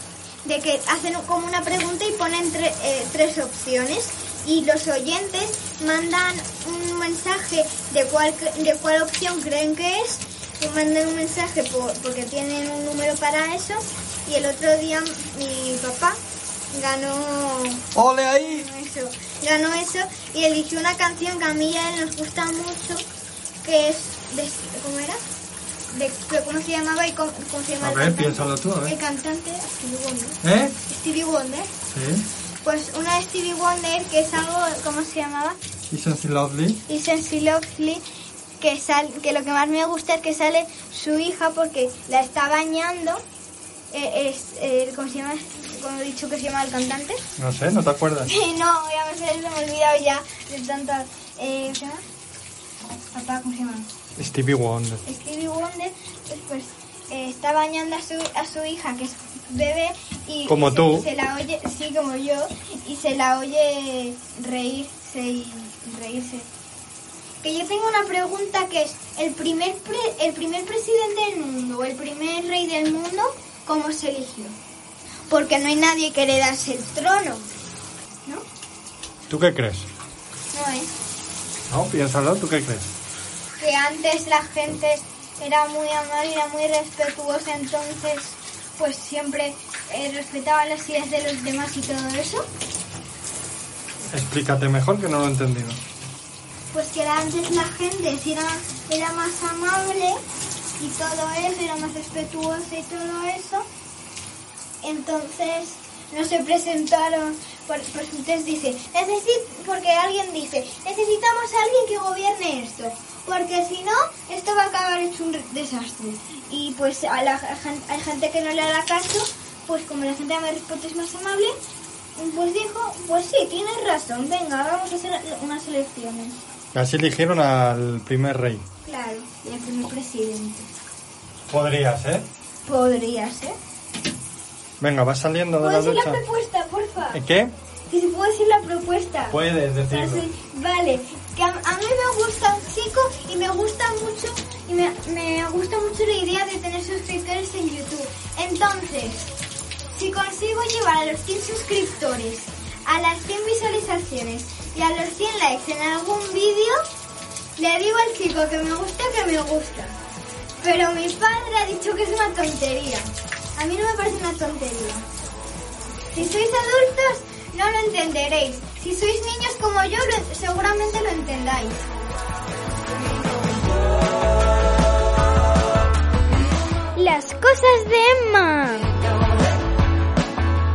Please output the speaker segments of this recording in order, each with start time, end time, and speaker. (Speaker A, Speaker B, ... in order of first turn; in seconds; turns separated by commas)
Speaker A: 0.4-16.2, Speaker A: 16.7-17.9, Speaker B: 17.9-18.7, Speaker A: 18.4-23.1, Speaker A: 23.6-25.2, Speaker A: 25.9-31.7, Speaker B: 27.8-29.0, Speaker B: 30.4-30.8, Speaker B: 31.9-32.3, Speaker A: 32.6-35.6, Speaker B: 35.9-36.8, Speaker A: 36.9-38.0, Speaker A: 38.6-43.2, Speaker A: 43.9-47.2, Speaker B: 47.4-48.3, Speaker A: 48.3-52.0, Speaker A: 53.1-53.9, Speaker B: 54.2-55.0, Speaker A: 55.1-66.5, Speaker B: 60.5-61.1, Speaker A: 67.4-74.6, Speaker A: 75.3-77.5, Speaker B: 79.3-79.9, Speaker A: 80.5-80.9, Speaker B: 81.7-82.9, Speaker A: 83.6-92.5, Speaker B: 94.1-95.8, Speaker A: 96.7-100.2, Speaker A: 100.8-103.7, Speaker A: 104.8-121.5, Speaker A: 122.2-126.4, Speaker B: 126.7-128.7, Speaker A: 128.8-130.7, Speaker B: 131.5-132.3, Speaker A: 132.7-133.6, Speaker B: 134.8-136.2, Speaker A: 135.6-137.2, Speaker B: 137.1-137.5, Speaker A: 137.9-139.4, Speaker B: 139.3-140.3, Speaker A: 139.9-149.3, Speaker A: 149.9-156.8, Speaker A: 157.6-160.0, Speaker A: 160.6-165.1, Speaker A: 166.1-171.8, Speaker A: 177.0-179.0